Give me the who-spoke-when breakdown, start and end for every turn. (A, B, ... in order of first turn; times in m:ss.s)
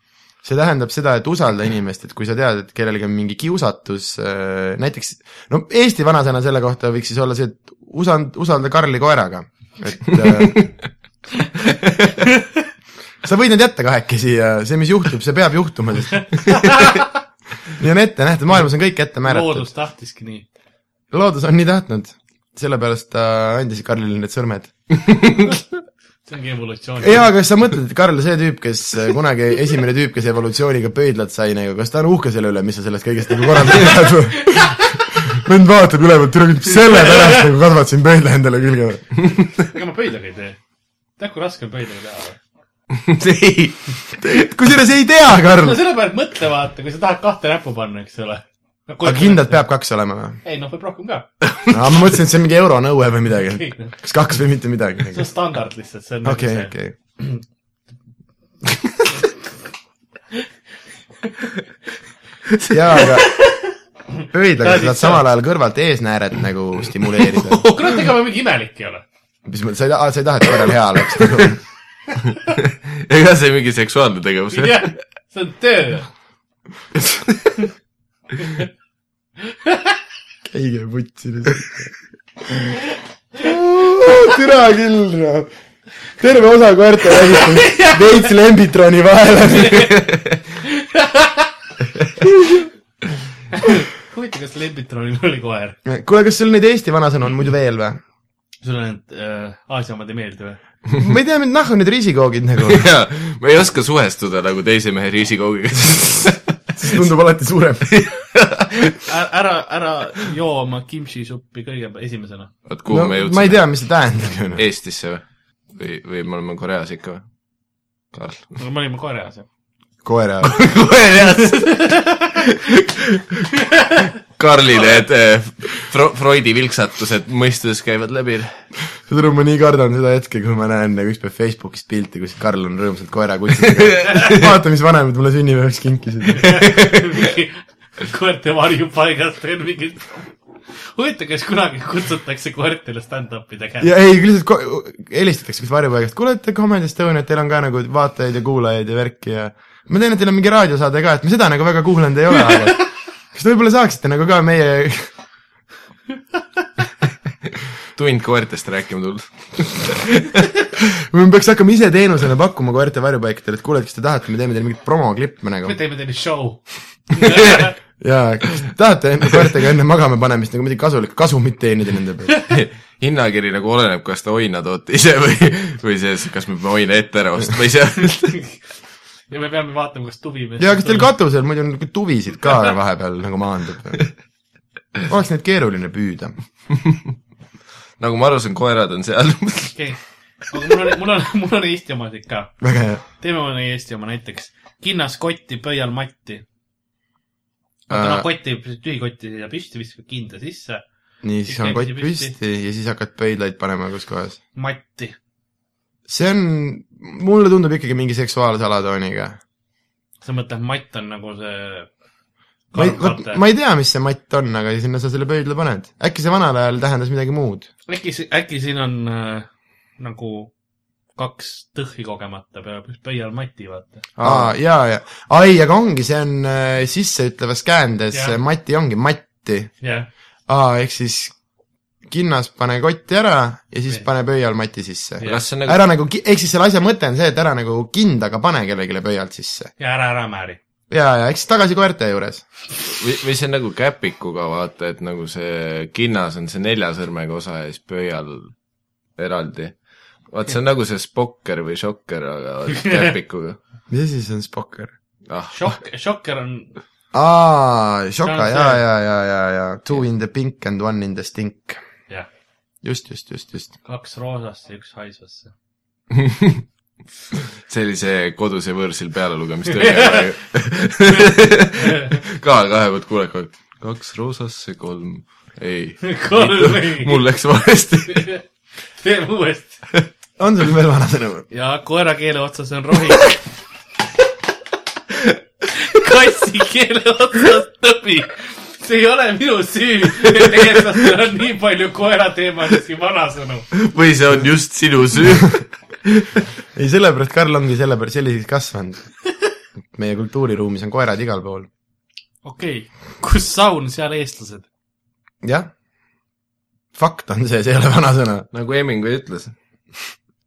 0:00.4-0:10.7 A
0:13.2-0:16.7 A
0:16.5-0:17.0 B
0:17.7-0:19.7 A
0:19.2-0:20.4 B
0:21.1-0:24.7 A
0:25.1-0:25.5 C
0:26.3-0:27.3 B
0:27.0-0:39.2 A
0:34.4-0:34.7 B
0:36.9-0:37.3 B
0:39.7-0:40.6 B
0:41.2-0:42.4 B
0:42.9-0:44.4 C
0:44.2-0:45.8 A
0:45.6-0:49.6 B
0:49.0-0:50.4 A
0:50.4-0:51.3 B
0:51.4-0:51.8 C
0:51.7-0:55.3 A
0:53.6-0:53.9 B
0:55.1-0:56.7 B
0:56.2-0:57.0 A
1:01.2-1:01.5 B
1:02.5-1:03.1 C
1:02.7-1:03.4 A
1:04.3-1:07.6 A
1:04.6-1:05.2 B
1:07.5-1:09.0 B
1:09.4-1:11.6 A
1:12.6-1:14.9 C
1:14.5-1:16.1 B
1:17.0-1:17.6 C
1:19.5-1:19.9 B
1:20.4-1:21.9 A
1:22.5-1:22.7 A
1:23.4-1:25.5 A
1:26.2-1:29.9 A
1:27.2-1:28.3 B
1:29.5-1:30.0 B
1:30.6-1:31.5 B
1:33.5-1:35.8 B
1:35.8-1:38.0 A
1:38.6-1:40.6 B
1:41.0-1:42.8 A
1:42.6-1:47.0 C
1:46.7-1:47.9 A
1:47.9-1:49.0 C
1:49.0-1:52.5 B
1:52.7-1:53.7 C
1:52.9-1:54.6 A
1:54.6-1:57.3 C
1:58.1-1:58.6 C
1:58.6-1:59.4 B
2:00.0-2:00.6 A
2:00.4-2:03.5 C
2:01.6-2:02.2 B
2:04.2-2:08.6 C
2:09.0-2:16.6 A
2:13.6-2:14.5 C
2:16.4-2:20.4 B
2:16.4-2:17.2 C
2:20.9-2:23.9 B
2:23.8-2:35.1 A
2:37.9-2:40.5 C
2:41.0-2:45.8 A
2:45.6-2:47.7 B
2:47.2-2:52.3 A
2:52.5-2:58.4 C
2:59.3-3:01.1 B
3:00.6-3:04.1 A
3:05.1-3:06.4 A
3:06.7-3:07.0 C
3:08.0-3:09.8 C
3:10.5-3:12.6 B
3:12.6-3:13.0 A
3:13.2-3:16.4 B
3:17.9-3:18.3 A
3:17.9-3:20.8 B
3:21.2-3:24.4 A
3:21.4-3:22.4 B
3:24.6-3:25.2 B
3:26.1-3:29.4 A
3:30.2-3:31.9 B
3:32.7-3:33.4 B
3:32.7-3:37.7 A
3:37.9-3:40.5 B
3:41.2-3:44.1 B
3:44.2-3:44.5 C
3:44.2-3:49.7 A
3:49.8-3:50.1 B
3:50.5-3:51.4 A
3:52.0-3:59.7 A
3:55.2-3:55.8 C
3:59.8-4:00.6 B
4:00.9-4:02.4 A
4:02.9-4:08.5 C
4:09.2-4:13.6 C
4:12.8-4:13.1 B
4:13.9-4:14.9 A
4:15.3-4:15.6 C
4:15.5-4:16.7 B
4:17.1-4:21.8 A
4:18.2-4:18.8 B
4:22.8-4:23.7 A
4:23.8-4:25.5 B
4:26.1-4:26.6 C
4:27.7-4:38.3 C
4:29.7-4:30.3 B
4:31.1-4:32.2 B
4:36.0-4:37.2 B
4:38.1-4:38.4 B
4:39.0-4:39.8 B
4:40.4-4:41.5 A
4:41.5-4:43.4 B
4:45.7-4:53.7 B
4:53.7-4:56.3 C
4:56.7-4:59.1 A
4:59.9-5:01.7 A
5:02.4-5:04.7 B
5:05.4-5:05.7 A
5:06.9-5:08.5 A
5:08.5-5:09.6 C